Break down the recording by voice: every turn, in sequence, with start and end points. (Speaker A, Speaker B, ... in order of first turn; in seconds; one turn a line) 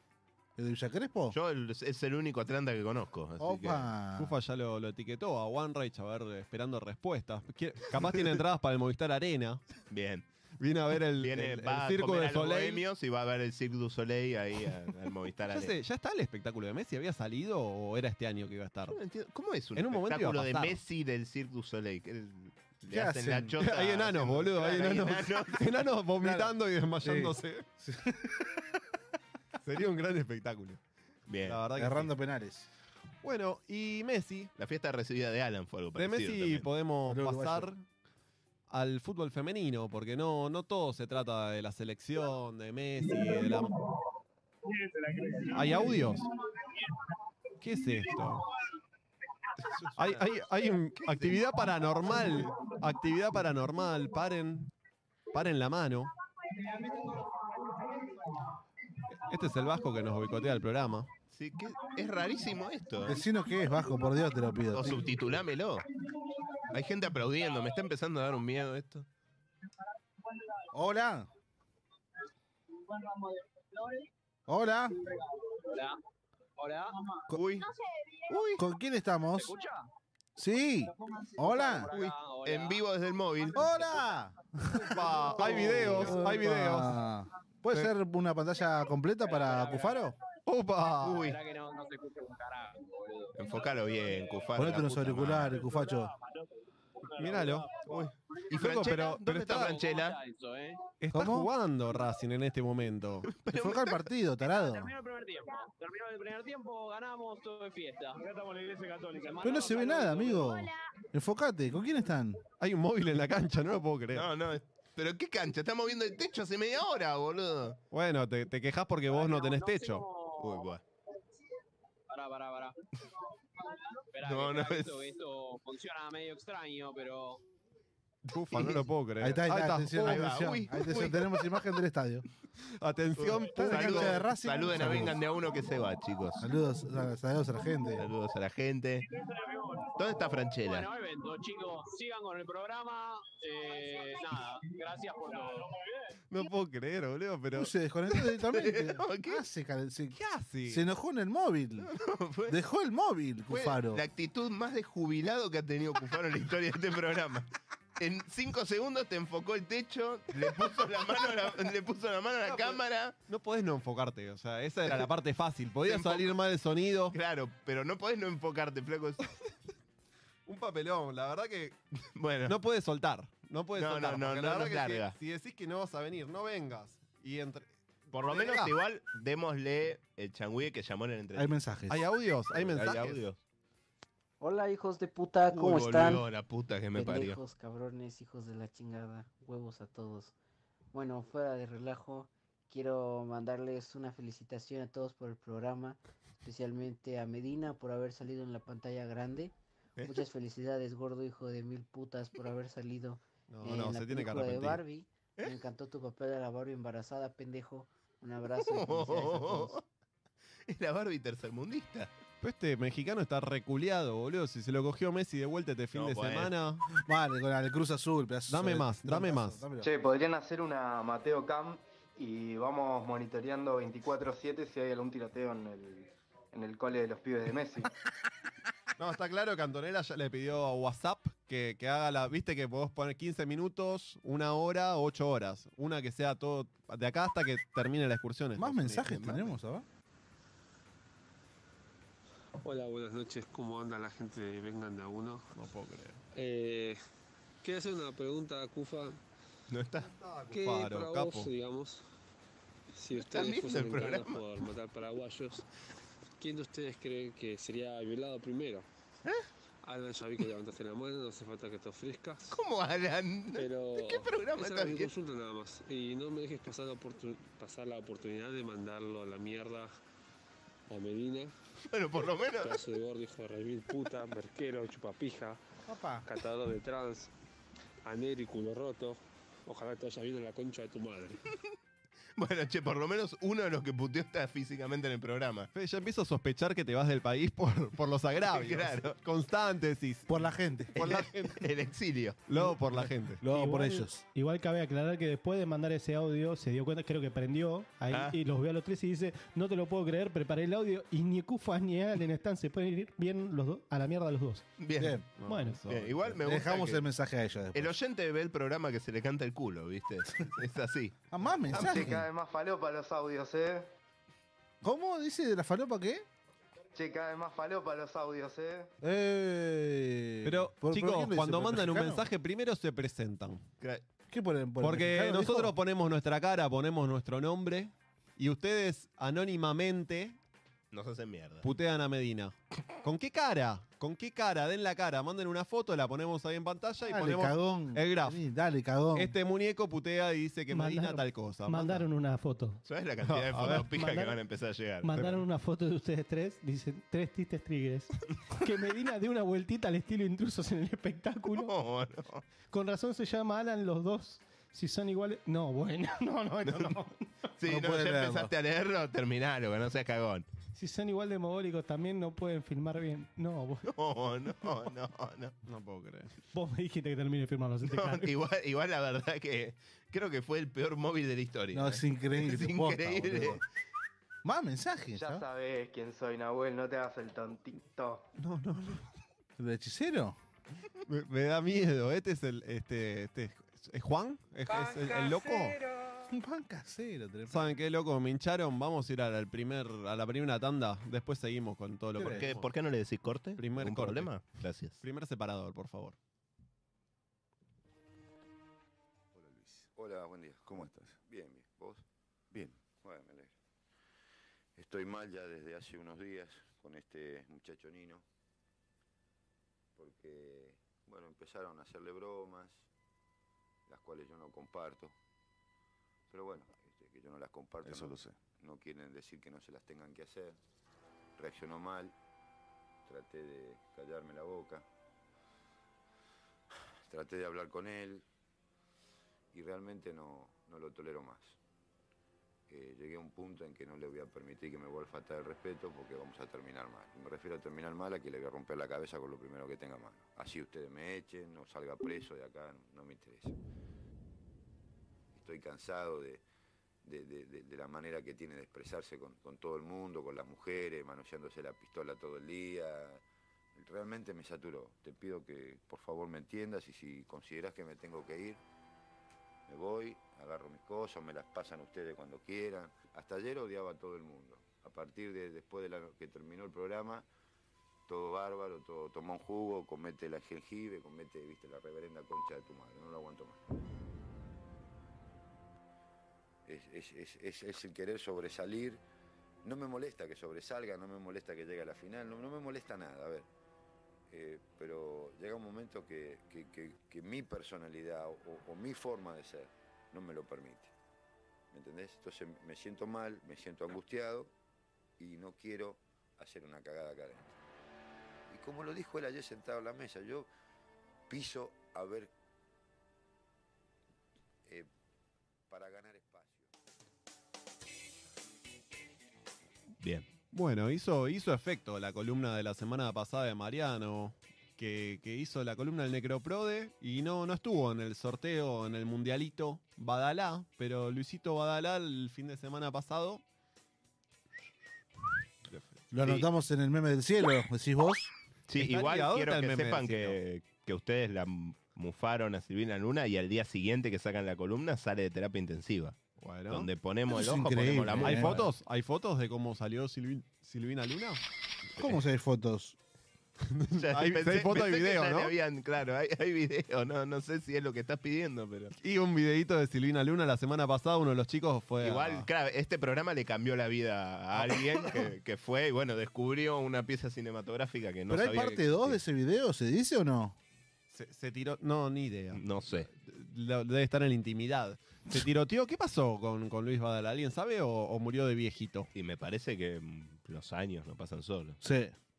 Speaker A: 0.6-1.4
Speaker B: 1.3-3.9
Speaker A: 3.4-4.3
Speaker C: 4.2-9.6
Speaker B: 9.9-10.2
Speaker C: 10.6-12.8
Speaker B: 11.2-15.7
Speaker C: 15.5-19.0
Speaker B: 18.9-25.6
Speaker C: 19.8-20.8
Speaker A: 22.9-23.6
Speaker C: 23.6-27.6
Speaker A: 26.2-28.5
Speaker C: 29.6-30.8
Speaker B: 31.3-31.6
Speaker C: 31.4-32.1
Speaker A: 31.7-32.7
Speaker C: 33.2-34.5
Speaker B: 34.6-36.6
Speaker C: 35.9-37.8
Speaker A: 37.0-37.7
Speaker C: 38.7-43.7
Speaker C: 45.5-46.2
Speaker C: 47.6-48.4
Speaker B: 49.6-50.3
Speaker C: 50.0-54.7
Speaker B: 51.0-51.4
Speaker C: 55.3-56.1
Speaker D: 56.6-57.4
Speaker C: 59.1-61.1
Speaker B: 61.3-63.2
Speaker A: 63.0-65.1
Speaker B: 64.7-65.8
Speaker B: 66.7-69.0
Speaker A: 70.7-71.3
Speaker D: 73.0-74.0
Speaker A: 74.5-75.0
Speaker D: 75.5-76.0
Speaker D: 76.6-77.2
Speaker B: 77.3-77.7
Speaker B: 78.3-78.6
Speaker A: 78.6-79.5
Speaker D: 79.3-79.9
Speaker A: 80.4-81.9
Speaker D: 81.2-82.8
Speaker B: 81.9-83.7
Speaker A: 83.5-90.1
Speaker C: 84.8-87.0
Speaker D: 89.2-90.1
Speaker C: 90.5-91.3
Speaker B: 91.0-91.3
Speaker D: 91.2-94.2
Speaker B: 93.3-95.6
Speaker A: 94.5-96.1
Speaker D: 95.5-98.0
Speaker C: 97.2-97.7
Speaker B: 97.8-100.2
Speaker C: 98.5-99.8
Speaker D: 99.5-100.8
Speaker C: 101.0-103.3
Speaker A: 101.1-101.5
Speaker B: 103.3-104.0
Speaker A: 103.5-104.9
Speaker D: 104.4-110.5
Speaker A: 109.4-112.4
Speaker C: 112.6-114.3
Speaker B: 114.1-117.8
Speaker C: 117.9-120.0
Speaker D: 119.1-120.7
Speaker B: 120.4-120.8
Speaker D: 122.1-122.8
Speaker D: 124.1-127.4
Speaker B: 124.2-124.9
Speaker C: 128.2-130.4
Speaker B: 128.5-128.8
Speaker A: 129.2-132.2
Speaker B: 130.0-131.3
Speaker C: 132.8-134.2
Speaker B: 133.2-136.4
Speaker A: 133.5-135.2
Speaker A: 136.4-138.1
Speaker B: 138.0-139.0
Speaker D: 139.2-140.0
Speaker B: 140.0-140.9
Speaker D: 140.6-145.8
Speaker C: 146.3-147.7
Speaker A: 147.5-151.9
Speaker B: 148.4-149.4
Speaker C: 150.1-150.8
Speaker B: 151.8-152.6
Speaker A: 152.5-154.0
Speaker B: 153.5-163.1
Speaker C: 162.4-167.1
Speaker B: 165.8-166.3
Speaker B: 167.1-169.2
Speaker C: 170.4-171.8
Speaker B: 172.2-172.5
Speaker C: 172.4-178.7
Speaker B: 173.8-175.1
Speaker B: 178.1-181.6
Speaker A: 181.3-182.0
Speaker C: 181.9-183.2
Speaker B: 182.5-183.4
Speaker E: 184.4-186.2
Speaker B: 185.5-187.4
Speaker E: 186.9-190.3
Speaker E: 190.9-209.8
Speaker C: 203.5-204.8
Speaker B: 208.6-209.8
Speaker B: 210.7-212.1
Speaker C: 212.4-216.8
Speaker B: 215.9-216.5
Speaker A: 216.9-219.9
Speaker C: 218.5-219.6
Speaker F: 219.8-227.9
Speaker C: 229.0-239.5
Speaker A: 238.6-239.8
Speaker G: 242.6-245.4
Speaker C: 245.5-246.2
Speaker G: 246.3-247.0
Speaker G: 247.6-249.2
Speaker B: 249.7-250.1
Speaker C: 250.0-251.5
Speaker G: 250.5-252.0
Speaker G: 253.0-255.6
Speaker B: 253.2-254.4
Speaker G: 256.4-258.9
Speaker G: 259.8-262.6
Speaker B: 262.5-265.1
Speaker G: 263.5-269.9
Speaker G: 270.9-271.5
Speaker B: 271.9-272.8
Speaker G: 272.6-275.6
Speaker A: 275.9-276.2
Speaker G: 276.2-277.3
Speaker G: 278.0-281.4
Speaker B: 282.4-285.7
Speaker C: 285.7-291.7
Speaker B: 288.4-289.1
Speaker A: 290.3-290.9
Speaker B: 291.0-292.4
Speaker C: 292.5-293.4
Speaker A: 292.6-294.2
Speaker H: 293.5-304.6
Speaker B: 298.1-298.4
Speaker B: 304.8-305.2
Speaker A: 305.0-305.3
Speaker C: 305.4-306.4
Speaker H: 305.4-305.8
Speaker B: 305.9-307.0
Speaker A: 306.4-307.9
Speaker B: 307.7-311.2
Speaker A: 311.3-312.3
Speaker B: 311.7-312.2
Speaker F: 311.8-313.9
Speaker A: 314.8-316.2
Speaker F: 316.9-318.9
Speaker A: 319.0-322.2
Speaker C: 320.4-323.6
Speaker A: 324.3-325.7
Speaker C: 324.8-330.4
Speaker B: 330.9-331.7
Speaker C: 331.6-338.4
Speaker A: 337.0-339.4
Speaker C: 339.1-342.1
Speaker H: 340.7-342.8
Speaker B: 342.8-345.3
Speaker C: 343.2-343.9
Speaker H: 343.7-344.4
Speaker H: 345.0-351.7
Speaker B: 351.5-352.4
Speaker H: 352.7-357.5
Speaker B: 356.6-357.0
Speaker B: 357.6-360.5
Speaker A: 357.6-358.5
Speaker H: 360.7-363.9
Speaker B: 363.9-365.5
Speaker C: 365.6-366.3
Speaker H: 366.5-368.3
Speaker B: 367.8-373.6
Speaker A: 371.7-373.6
Speaker A: 374.4-375.4
Speaker F: 375.1-378.2
Speaker C: 378.4-379.1
Speaker A: 379.6-380.4
Speaker C: 381.1-385.8
Speaker A: 386.3-387.7
Speaker C: 387.5-392.7
Speaker A: 392.1-392.4
Speaker B: 392.2-395.0
Speaker C: 393.6-394.4
Speaker C: 395.0-396.1
Speaker I: 399.8-403.5
Speaker I: 404.8-408.2
Speaker I: 409.9-412.8
Speaker I: 413.9-415.1
Speaker I: 416.3-420.6
Speaker I: 421.4-422.1
Speaker I: 423.1-424.8
Speaker I: 427.1-428.2
Speaker I: 429.5-431.6
Speaker I: 432.7-443.6
Speaker I: 445.3-446.4
Speaker I: 447.0-453.2
Speaker I: 453.7-458.6
Speaker I: 459.7-467.2
Speaker I: 468.1-473.6
Speaker I: 476.6-479.0
Speaker I: 479.6-483.5
Speaker I: 484.3-490.9
Speaker I: 491.7-494.5
Speaker I: 495.2-497.6
Speaker I: 498.5-500.5
Speaker I: 501.3-502.3
Speaker I: 505.7-506.7
Speaker B: 510.0-510.3
Speaker C: 510.5-523.4
Speaker B: 526.1-526.5
Speaker A: 526.1-528.3
Speaker B: 528.7-536.2
Speaker C: 528.7-530.4
Speaker C: 536.4-536.9
Speaker B: 536.7-538.6
Speaker A: 537.3-538.7
Speaker C: 538.2-541.4
Speaker A: 542.0-543.0
Speaker C: 543.7-545.5
Speaker B: 544.0-548.9
Speaker C: 549.0-552.5
Speaker B: 552.0-559.2
Speaker A: 558.3-560.6
Speaker C: 561.1-569.1
Speaker B: 562.5-563.1
Speaker B: 569.1-571.8
Speaker A: 571.8-572.1